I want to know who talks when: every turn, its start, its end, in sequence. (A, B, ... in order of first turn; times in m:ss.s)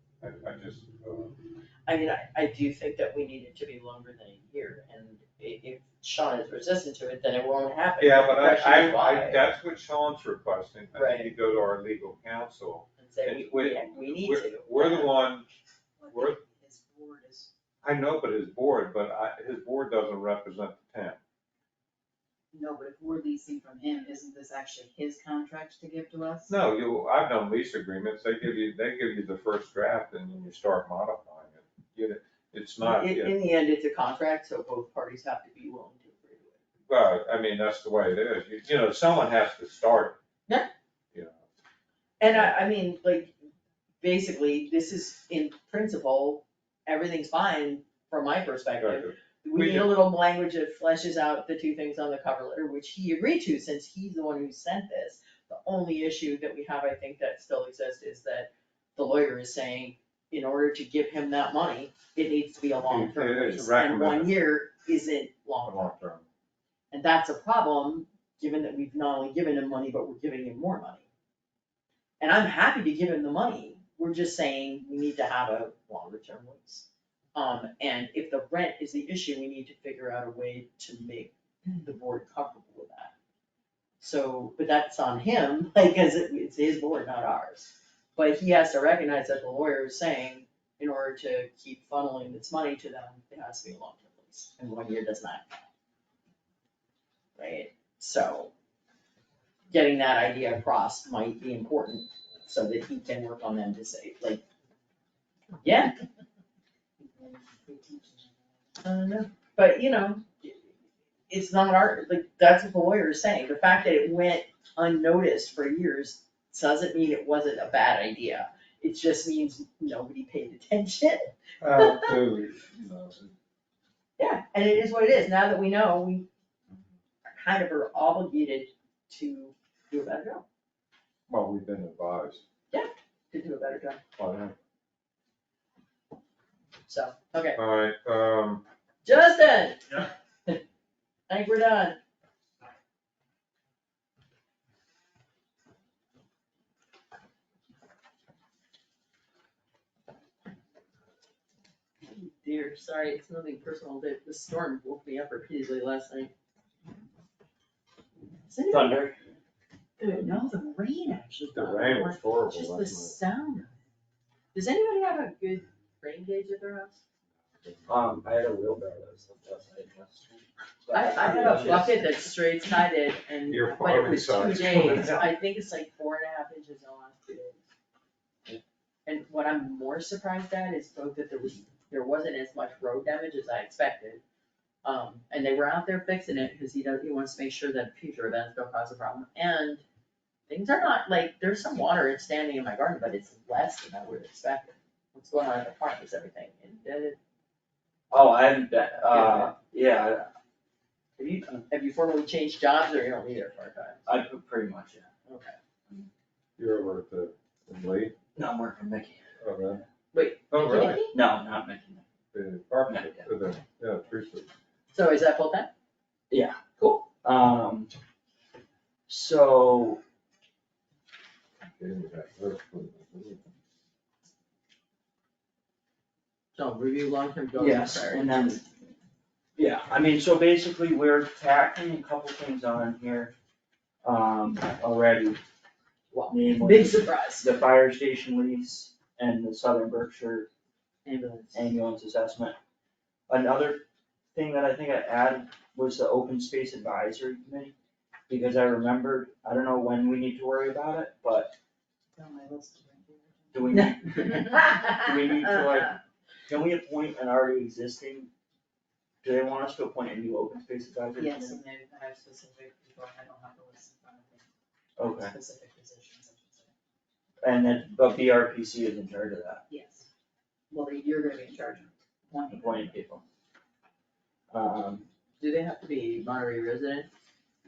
0:00.2-0:01.4 A
0:01.9-0:09.4 B
0:08.0-0:15.5 A
0:10.9-0:11.3 B
0:13.0-0:15.2 B
0:16.0-0:17.5 C
0:16.1-0:16.4 A
0:17.8-0:21.2 A
0:22.5-0:26.5 C
0:26.5-0:33.4 A
0:32.8-0:36.6 B
0:36.9-0:40.2 A
0:42.2-0:43.3 B
0:44.0-1:06.0 B
0:48.8-0:49.9 A
1:02.8-1:04.3 A
1:05.6-1:06.2 A
1:06.9-1:11.1 B
1:12.2-1:23.1 B
1:24.0-1:35.7 B
1:37.4-1:38.5 B
1:39.7-1:44.4 B
1:45.6-1:45.9 B
1:47.0-1:48.4 C
1:48.8-1:50.7 B
1:51.3-2:02.2 B
2:01.6-2:03.3 A
2:04.2-2:06.3 B
2:07.2-2:10.4 B
2:11.3-2:12.4 A
2:12.7-2:14.0 B
2:14.2-2:14.6 A
2:16.9-2:17.6 B
2:17.6-2:18.6 A
2:19.0-2:20.6 B
2:21.3-2:22.0 B
2:32.0-2:36.3 B
2:38.5-2:39.0 B
2:38.7-2:39.2 D
2:40.0-2:43.7 B
2:41.5-2:43.2 A
2:44.5-2:47.0 B
2:47.6-2:48.3 A
2:47.9-2:52.2 D
2:50.9-2:57.6 B
2:53.5-2:55.1 A
2:54.6-2:55.3 D
2:59.1-3:04.2 B
3:04.8-3:09.8 B
3:10.5-3:17.2 B
3:18.1-3:20.3 D
3:19.1-3:19.5 B
3:21.2-3:24.1 B
3:24.1-3:25.1 D
3:25.3-3:25.6 B
3:26.6-3:28.1 A
3:28.4-3:29.3 D
3:29.4-3:29.8 A
3:30.1-3:31.1 B
3:30.5-3:31.0 A
3:30.8-3:32.0 D
3:32.3-3:34.5 A
3:32.9-3:33.3 D
3:34.9-3:35.7 B
3:36.3-3:37.9 D
3:39.1-3:40.0 D
3:41.8-3:43.4 A
3:46.6-3:48.6 B
3:47.6-3:48.6 D
3:49.6-3:53.3 D
3:54.0-3:55.4 D
3:56.1-3:57.5 B
3:56.3-4:00.5 D
4:01.0-4:01.7 B
4:01.5-4:02.6 D
4:03.3-4:07.7 D
4:08.3-4:11.6 D
4:12.2-4:14.8 C
4:13.5-4:18.3 D
4:19.2-4:21.6 D
4:21.2-4:24.4 C
4:25.0-4:25.4 D
4:25.0-4:26.7 C
4:27.4-4:29.6 D
4:29.7-4:30.1 C
4:30.7-4:32.9 C
4:32.5-4:33.2 D
4:34.5-4:35.1 D
4:35.4-4:37.1 B